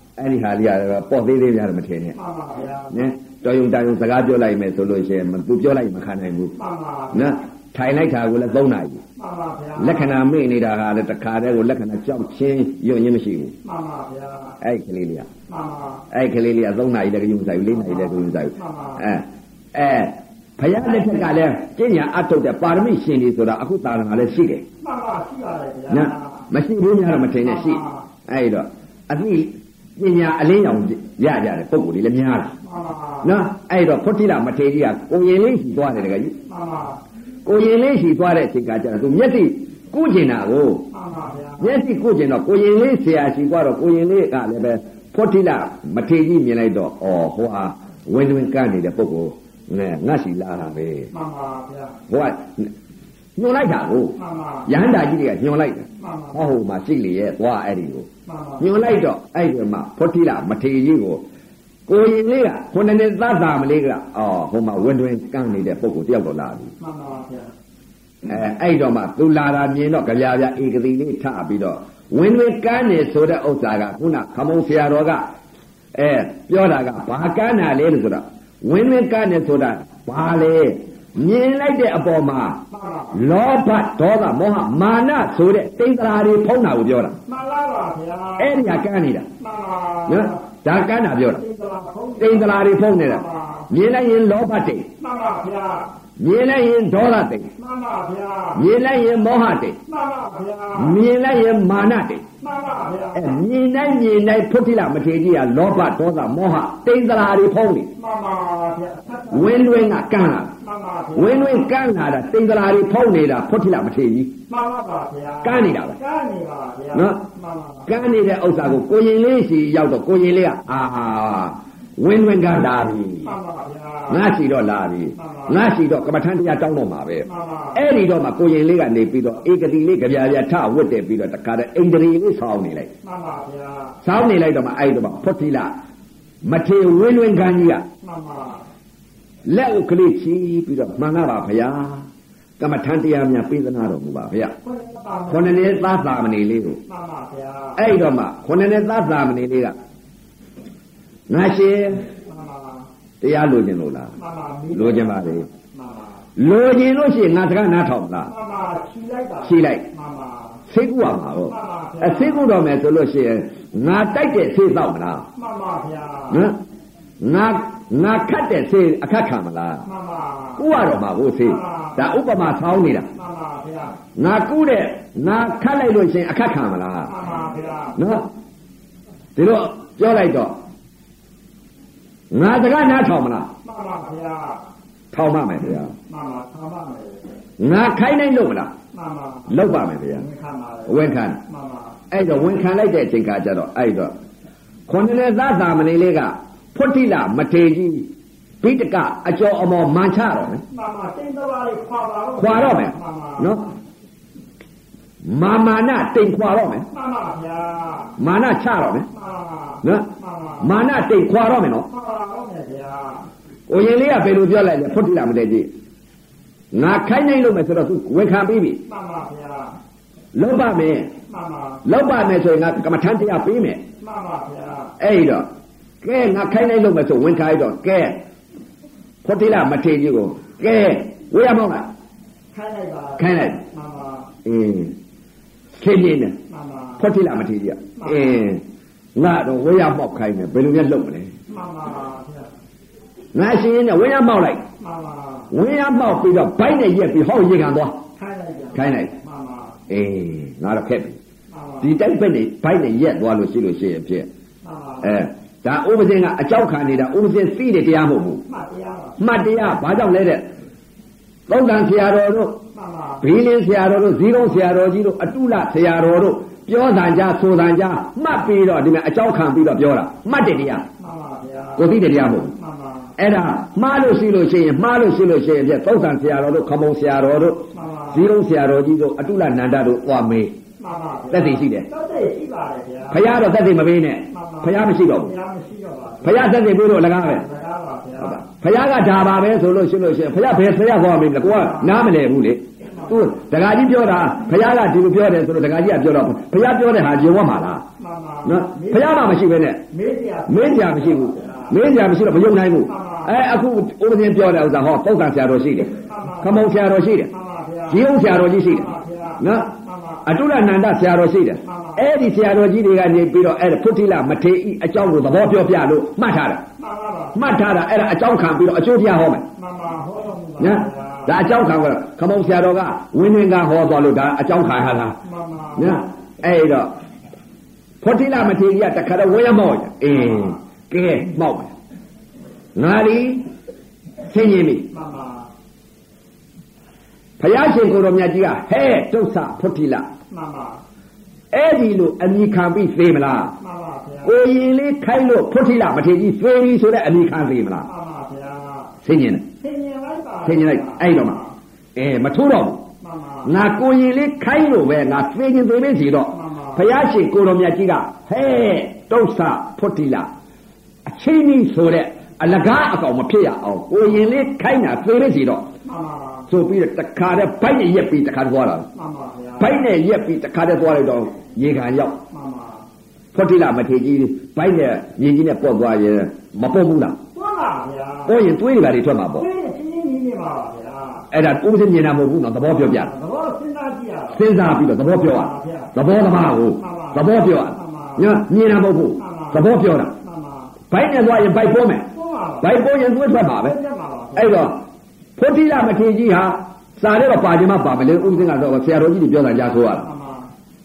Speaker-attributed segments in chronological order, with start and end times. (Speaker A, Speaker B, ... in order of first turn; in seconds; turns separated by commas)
Speaker A: 0.2-2.2, Speaker B: 2.1-2.9, Speaker A: 2.9-6.5, Speaker B: 6.5-7.4, Speaker A: 7.1-9.0, Speaker B: 9.2-10.1, Speaker A: 9.8-13.5, Speaker B: 13.6-14.6, Speaker A: 14.6-15.3, Speaker B: 15.5-16.0, Speaker A: 16.1-24.6, Speaker B: 17.7-19.0, Speaker B: 24.8-26.4, Speaker A: 25.9-32.5, Speaker B: 27.4-28.0, Speaker B: 32.6-33.3, Speaker A: 33.2-36.4, Speaker B: 36.5-37.0, Speaker A: 37.5-40.9, Speaker B: 40.9-41.7, Speaker A: 41.6-51.1, Speaker B: 51.1-52.0, Speaker A: 52.1-52.7, Speaker A: 53.4-58.1, Speaker B: 54.2-54.7, Speaker B: 56.0-56.4, Speaker B: 58.3-58.6, Speaker A: 58.6-61.2, Speaker A: 61.9-66.7, Speaker B: 66.8-67.5, Speaker A: 68.3-75.3, Speaker A: 75.9-82.6, Speaker B: 82.7-83.2, Speaker A: 83.1-87.2, Speaker B: 87.3-88.7, Speaker A: 88.4-89.3, Speaker B: 89.4-90.4, Speaker A: 90.1-91.4, Speaker B: 91.3-93.7, Speaker A: 92.2-94.9, Speaker B: 95.0-95.9, Speaker A: 96.2-97.5, Speaker B: 97.6-98.6, Speaker A: 98.5-99.8, Speaker B: 99.9-101.0, Speaker A: 100.8-102.2, Speaker B: 102.4-103.4, Speaker A: 103.1-107.9, Speaker B: 108.0-109.7, Speaker A: 109.3-110.5, Speaker B: 110.6-111.7, Speaker A: 111.2-114.3, Speaker B: 114.5-117.9, Speaker A: 115.4-116.0, Speaker A: 116.9-117.2, Speaker A: 117.9-123.3, Speaker B: 123.2-124.2, Speaker A: 124.1-132.9, Speaker B: 125.2-125.6, Speaker B: 127.2-127.8, Speaker B: 133.0-134.0, Speaker A: 134.0-135.7, Speaker A: 136.4-137.8, Speaker B: 138.0-138.6, Speaker A: 139.5-142.1, Speaker A: 142.6-144.6, Speaker B: 144.6-145.9, Speaker A: 145.3-146.8, Speaker B: 146.9-147.8, Speaker A: 147.8-149.8, Speaker A: 151.3-152.1, Speaker B: 152.2-152.9, Speaker A: 153.2-154.1, Speaker B: 154.2-156.2, Speaker A: 154.7-155.5, Speaker A: 156.4-158.3, Speaker B: 158.3-160.6, Speaker A: 159.4-159.9, Speaker A: 160.7-165.3, Speaker B: 161.5-162.4, Speaker B: 165.3-166.4, Speaker A: 166.3-166.6, Speaker A: 167.2-169.8, Speaker B: 169.8-170.6, Speaker A: 170.6-173.1, Speaker B: 171.4-172.1, Speaker B: 173.1-174.0, Speaker A: 174.2-177.1, Speaker B: 177.1-178.0, Speaker A: 178.0-178.3, Speaker A: 179.4-180.6, Speaker A: 182.3-183.5, Speaker B: 183.6-184.7, Speaker A: 185.1-185.9, Speaker B: 186.1-187.2, Speaker A: 187.6-188.7, Speaker B: 188.9-189.5, Speaker A: 189.5-190.2, Speaker B: 190.1-192.0, Speaker A: 190.9-191.4, Speaker A: 192.1-194.1, Speaker A: 194.9-198.1, Speaker A: 198.6-200.6, Speaker B: 200.7-203.6, Speaker A: 202.4-203.7, Speaker A: 205.2-206.9, Speaker B: 206.9-208.1, Speaker A: 208.2-209.1, Speaker B: 209.1-210.7, Speaker A: 210.6-211.9, Speaker B: 211.9-213.2, Speaker A: 213.7-215.7, Speaker A: 216.7-218.8, Speaker B: 218.9-219.7, Speaker A: 220.3-221.1, Speaker B: 221.3-221.8, Speaker A: 221.8-223.8, Speaker B: 224.0-224.9, Speaker A: 225.0-225.5, Speaker A: 226.0-228.2, Speaker A: 229.2-231.9, Speaker B: 232.5-234.3, Speaker A: 233.2-233.6, Speaker A: 234.4-234.9, Speaker A: 235.8-236.4, Speaker B: 236.5-237.0, Speaker A: 237.0-238.6, Speaker B: 238.0-238.3, Speaker A: 239.2-241.3, Speaker B: 241.5-242.5, Speaker A: 243.3-244.6, Speaker B: 244.8-245.5, Speaker A: 245.5-248.0, Speaker B: 248.2-249.8, Speaker A: 248.7-249.1, Speaker A: 249.9-251.2, Speaker B: 251.5-251.9, Speaker A: 251.8-254.3, Speaker B: 254.6-255.1, Speaker A: 255.0-258.4, Speaker B: 258.5-259.2, Speaker A: 259.2-260.5, Speaker A: 261.5-262.6, Speaker B: 262.7-263.2, Speaker A: 263.2-270.9, Speaker B: 271.0-271.9, Speaker A: 271.8-272.5, Speaker B: 272.4-273.1, Speaker A: 273.2-280.5, Speaker B: 277.7-278.2, Speaker B: 280.8-283.3, Speaker A: 281.3-281.9, Speaker A: 283.1-285.3, Speaker B: 284.3-286.4, Speaker A: 286.2-287.4, Speaker B: 287.4-288.4, Speaker A: 288.2-297.8, Speaker B: 292.9-293.2, Speaker B: 298.0-299.2, Speaker A: 298.4-299.9, Speaker B: 299.9-301.7, Speaker A: 300.5-307.3, Speaker B: 302.8-303.4, Speaker B: 306.0-306.6, Speaker B: 307.3-308.1, Speaker A: 307.9-309.7, Speaker B: 308.6-310.2, Speaker A: 310.2-316.6, Speaker B: 311.6-312.1, Speaker B: 316.8-317.4, Speaker A: 317.4-319.5, Speaker B: 319.6-321.3, Speaker A: 320.6-325.2, Speaker B: 325.2-326.1, Speaker A: 325.8-326.9, Speaker A: 328.0-331.7, Speaker A: 332.8-333.4, Speaker A: 334.3-334.9, Speaker B: 334.9-335.5, Speaker A: 337.4-340.1, Speaker B: 340.3-340.8, Speaker A: 341.5-343.5, Speaker B: 343.6-344.3, Speaker A: 344.2-347.9, Speaker B: 347.9-348.9, Speaker A: 349.0-349.5, Speaker B: 349.6-351.5, Speaker A: 350.4-351.4, Speaker A: 352.0-352.8, Speaker B: 353.0-353.5, Speaker A: 353.4-360.3, Speaker B: 356.3-356.8, Speaker A: 361.1-365.7, Speaker B: 365.8-366.5, Speaker A: 366.5-368.9, Speaker B: 368.9-369.7, Speaker A: 369.6-372.2, Speaker B: 372.3-372.9, Speaker A: 373.3-377.2, Speaker B: 377.3-378.4, Speaker A: 378.3-379.4, Speaker B: 379.4-381.3, Speaker A: 381.3-383.1, Speaker B: 382.9-384.4, Speaker A: 384.3-390.1, Speaker B: 385.2-385.9, Speaker B: 386.8-388.2, Speaker B: 389.2-389.6, Speaker B: 390.2-390.7, Speaker A: 390.9-392.1, Speaker B: 392.1-392.7, Speaker A: 392.6-393.8, Speaker B: 393.6-394.7, Speaker A: 394.4-394.8, Speaker A: 395.4-400.1, Speaker B: 400.0-400.5